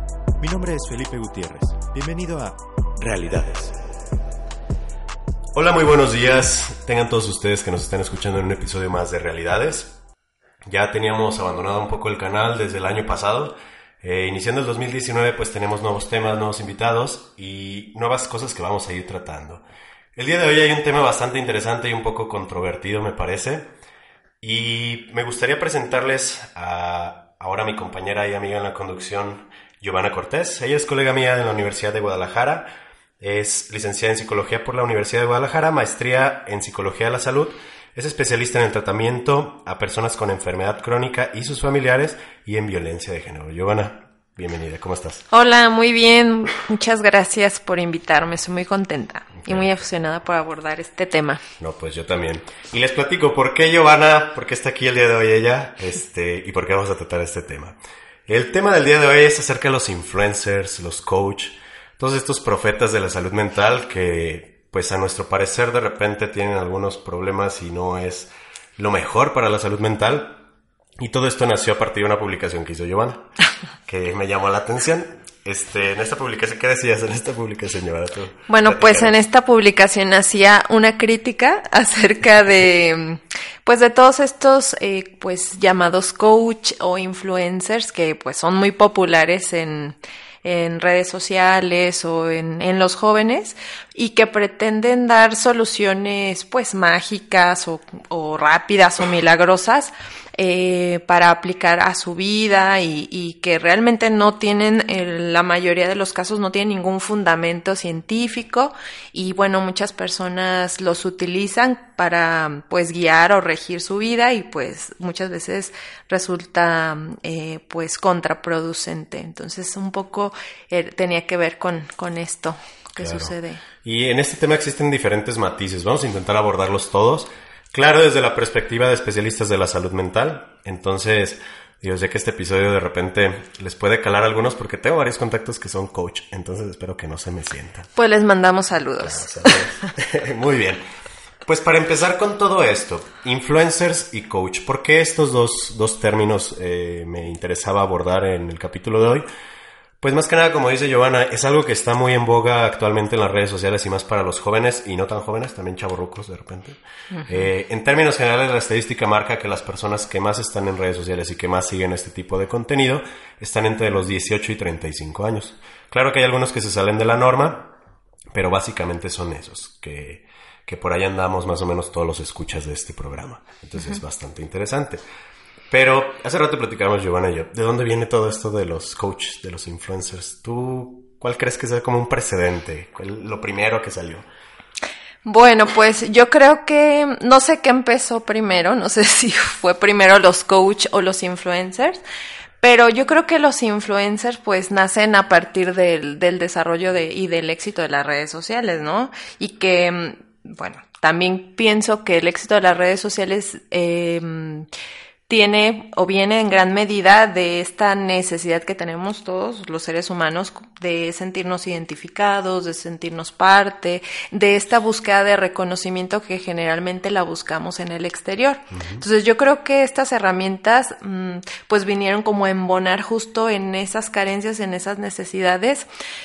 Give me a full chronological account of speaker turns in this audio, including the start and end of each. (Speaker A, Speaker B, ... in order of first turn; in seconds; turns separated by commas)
Speaker A: 0.4-3.7, Speaker B: 5.5-10.0, Speaker B: 10.7-19.6, Speaker B: 20.2-23.7, Speaker B: 24.4-32.7, Speaker B: 33.2-45.2, Speaker C: 45.3-51.4, Speaker B: 49.4-49.8, Speaker B: 51.6-70.4, Speaker B: 71.0-73.3, Speaker B: 73.9-79.1, Speaker C: 78.5-123.6, Speaker B: 123.0-137.9, Speaker C: 137.9-139.8, Speaker B: 139.0-140.8, Speaker B: 141.4-149.3, Speaker B: 150.0-167.7, Speaker C: 157.1-157.5, Speaker B: 168.3-175.0, Speaker B: 175.7-184.2, Speaker C: 185.2-192.0, Speaker C: 192.6-204.7, Speaker C: 205.3-225.9, Speaker B: 218.7-219.0